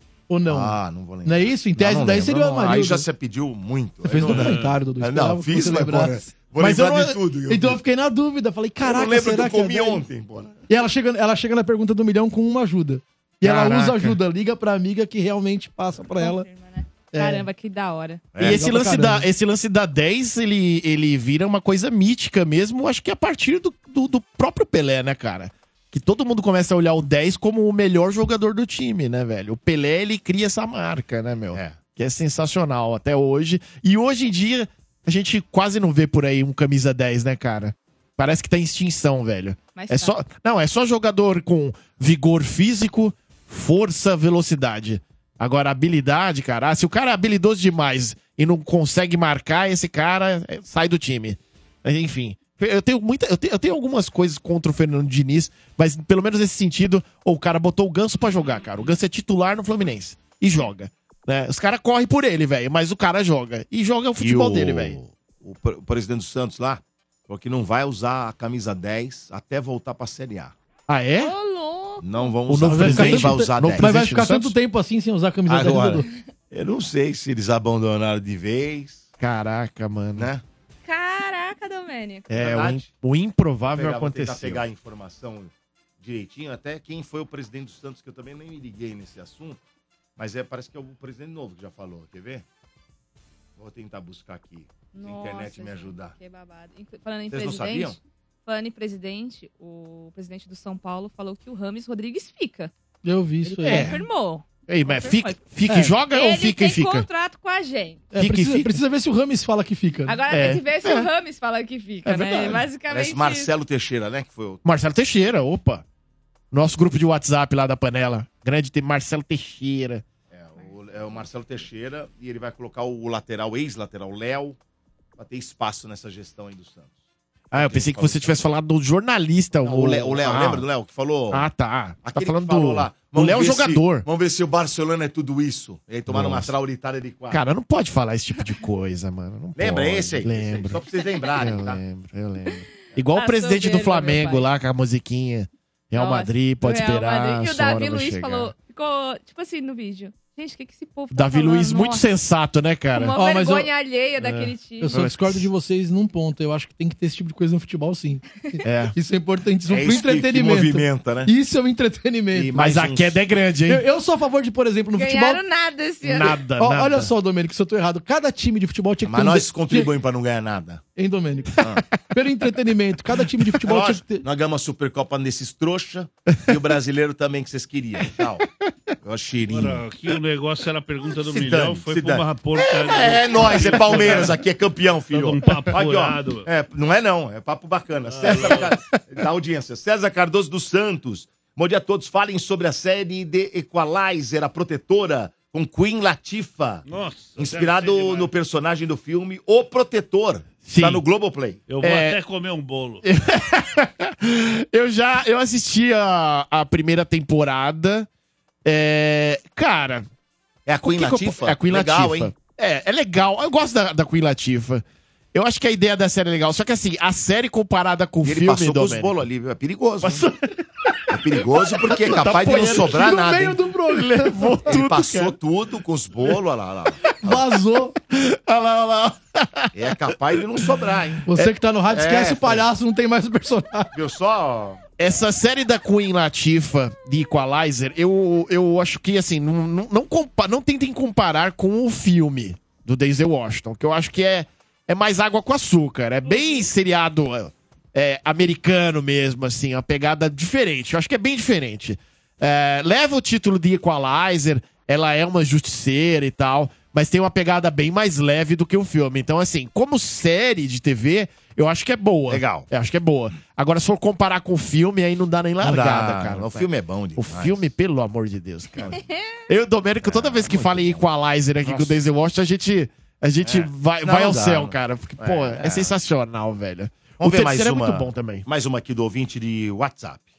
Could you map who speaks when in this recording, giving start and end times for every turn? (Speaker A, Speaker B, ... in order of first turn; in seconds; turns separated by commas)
Speaker A: 0.3-3.0, Speaker B: 0.5-7.8, Speaker A: 4.0-10.0, Speaker C: 4.2-4.8, Speaker B: 8.8-10.6, Speaker A: 10.7-16.5, Speaker D: 13.4-14.2, Speaker E: 16.1-18.3, Speaker A: 17.1-17.5, Speaker B: 18.3-18.6, Speaker A: 18.4-19.2, Speaker D: 18.4-65.0, Speaker B: 31.5-31.8, Speaker E: 39.7-40.1, Speaker B: 64.2-70.5, Speaker D: 70.9-71.3, Speaker E: 71.2-72.3, Speaker B: 72.0-73.9, Speaker D: 72.5-74.5, Speaker A: 72.7-76.0, Speaker B: 75.5-79.1, Speaker D: 79.2-80.3, Speaker B: 80.2-80.4, Speaker E: 80.8-82.4, Speaker D: 82.3-84.6, Speaker B: 82.3-82.9, Speaker B: 83.7-89.6, Speaker B: 90.2-92.4, Speaker B: 93.6-96.1, Speaker E: 94.9-102.7, Speaker B: 97.3-98.0, Speaker A: 103.0-103.9, Speaker D: 103.5-104.0, Speaker E: 103.6-105.4, Speaker D: 104.7-107.1, Speaker E: 106.0-108.0, Speaker A: 108.1-110.2, Speaker D: 108.2-108.8, Speaker E: 110.0-113.5, Speaker D: 110.3-111.1, Speaker D: 112.0-112.6, Speaker B: 112.9-114.6, Speaker D: 114.6-115.8, Speaker D: 116.5-120.0, Speaker B: 120.3-124.6, Speaker B: 125.2-126.9, Speaker D: 127.5-130.7, Speaker B: 127.5-128.3, Speaker B: 129.6-131.5, Speaker D: 131.3-134.1, Speaker B: 132.0-137.4, Speaker D: 136.1-136.5, Speaker D: 137.3-140.8, Speaker B: 139.6-141.8, Speaker D: 141.3-148.5, Speaker E: 142.5-144.5, Speaker E: 145.9-152.0, Speaker D: 151.1-153.2, Speaker E: 152.9-155.0, Speaker A: 153.1-153.7, Speaker A: 154.8-162.5, Speaker D: 154.9-155.5, Speaker D: 158.6-158.9, Speaker B: 159.7-161.3, Speaker B: 162.3-163.3, Speaker D: 162.5-163.8, Speaker A: 163.7-165.4, Speaker E: 164.9-166.4, Speaker D: 166.0-167.1, Speaker A: 166.6-169.9, Speaker B: 169.0-170.8, Speaker A: 170.9-171.6, Speaker B: 171.6-171.8, Speaker A: 172.1-174.2, Speaker D: 173.1-173.5, Speaker B: 173.6-178.4, Speaker B: 179.0-179.8, Speaker C: 179.5-184.4, Speaker B: 181.1-196.8, Speaker C: 185.1-186.5, Speaker C: 188.1-188.7, Speaker D: 188.3-188.5, Speaker C: 196.8-198.3, Speaker B: 197.4-201.6, Speaker D: 200.6-201.0, Speaker C: 201.7-203.0, Speaker D: 201.8-202.2, Speaker D: 203.0-208.1, Speaker D: 208.6-210.1, Speaker B: 210.7-212.3, Speaker D: 210.8-219.2, Speaker B: 218.2-220.3, Speaker D: 220.0-223.3, Speaker B: 221.1-223.6, Speaker A: 222.8-224.7, Speaker D: 223.9-225.4, Speaker B: 224.7-227.4, Speaker A: 227.2-227.9, Speaker D: 228.0-230.8, Speaker B: 229.7-231.2, Speaker A: 231.2-233.9, Speaker B: 231.9-232.7, Speaker B: 233.9-234.8, Speaker D: 235.0-268.9, Speaker B: 262.3-262.7, Speaker B: 265.6-267.7, Speaker E: 268.9-269.4, Speaker D: 269.5-278.4, Speaker B: 270.0-271.0, Speaker B: 271.6-272.0, Speaker B: 273.4-275.9, Speaker B: 277.2-280.2